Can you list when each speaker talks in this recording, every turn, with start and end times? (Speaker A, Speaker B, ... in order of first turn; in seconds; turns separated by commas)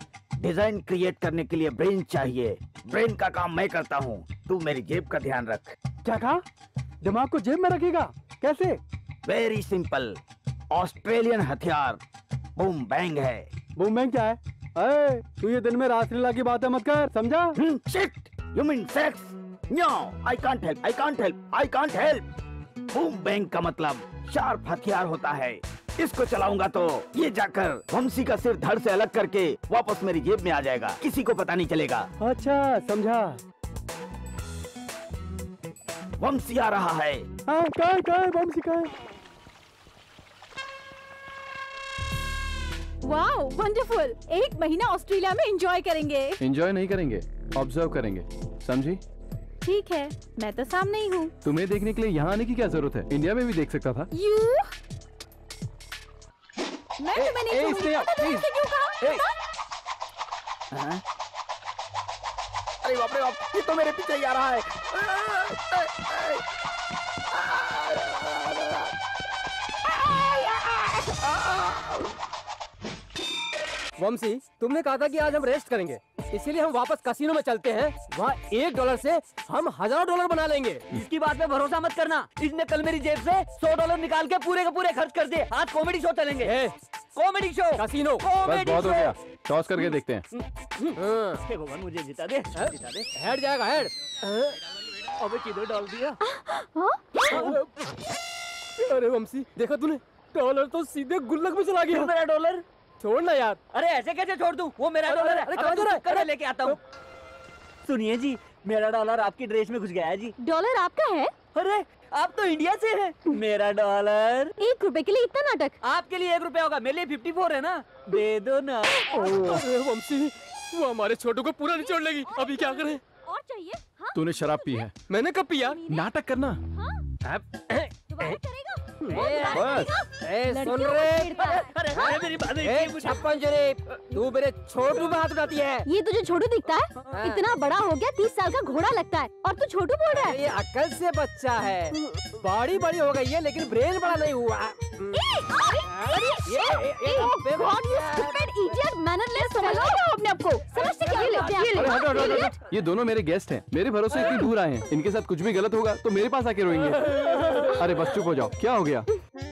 Speaker A: 0.4-5.8, Speaker B: 6.0-6.4, Speaker B: 7.0-8.8, Speaker A: 9.2-12.0, Speaker A: 12.6-13.5, Speaker B: 13.8-17.6, Speaker A: 17.6-22.3, Speaker A: 22.9-32.1, Speaker B: 32.2-33.4, Speaker A: 36.2-37.3, Speaker B: 37.5-38.9, Speaker C: 43.0-46.4, Speaker D: 46.4-49.0, Speaker C: 49.6-51.3, Speaker D: 51.4-54.1, Speaker C: 54.2-54.6, Speaker C: 57.0-59.2, Speaker D: 57.2-58.5, Speaker A: 60.7-61.0, Speaker A: 62.8-66.3, Speaker A: 67.5-68.2, Speaker A: 70.1-71.8, Speaker E: 74.0-80.8, Speaker F: 80.9-86.6, Speaker E: 86.4-86.8, Speaker F: 87.2-89.2, Speaker E: 87.8-88.3, Speaker D: 88.4-90.3, Speaker E: 91.0-91.4, Speaker F: 91.3-93.1, Speaker E: 92.6-94.5, Speaker F: 95.2-96.2, Speaker G: 96.5-96.8, Speaker E: 97.2-97.7, Speaker F: 97.3-97.6, Speaker E: 98.8-102.1, Speaker F: 101.9-102.6, Speaker E: 103.0-103.6, Speaker F: 103.7-106.8, Speaker E: 105.1-106.8, Speaker F: 107.8-110.4, Speaker G: 110.4-111.3, Speaker F: 111.5-114.5, Speaker G: 114.6-115.8, Speaker F: 115.8-119.3, Speaker E: 119.1-123.0, Speaker G: 122.2-124.9, Speaker D: 124.1-124.9, Speaker E: 125.1-125.8, Speaker D: 125.9-126.6, Speaker G: 126.7-127.0, Speaker G: 128.1-131.7, Speaker E: 129.1-131.4, Speaker F: 131.4-133.3, Speaker E: 132.6-135.9, Speaker G: 135.8-140.4, Speaker E: 137.1-137.4, Speaker E: 140.1-145.2, Speaker G: 145.1-150.0, Speaker E: 146.0-148.4, Speaker C: 149.4-151.8, Speaker G: 150.7-152.5, Speaker E: 151.2-152.4, Speaker F: 152.0-152.5, Speaker D: 152.5-159.1, Speaker E: 157.0-157.8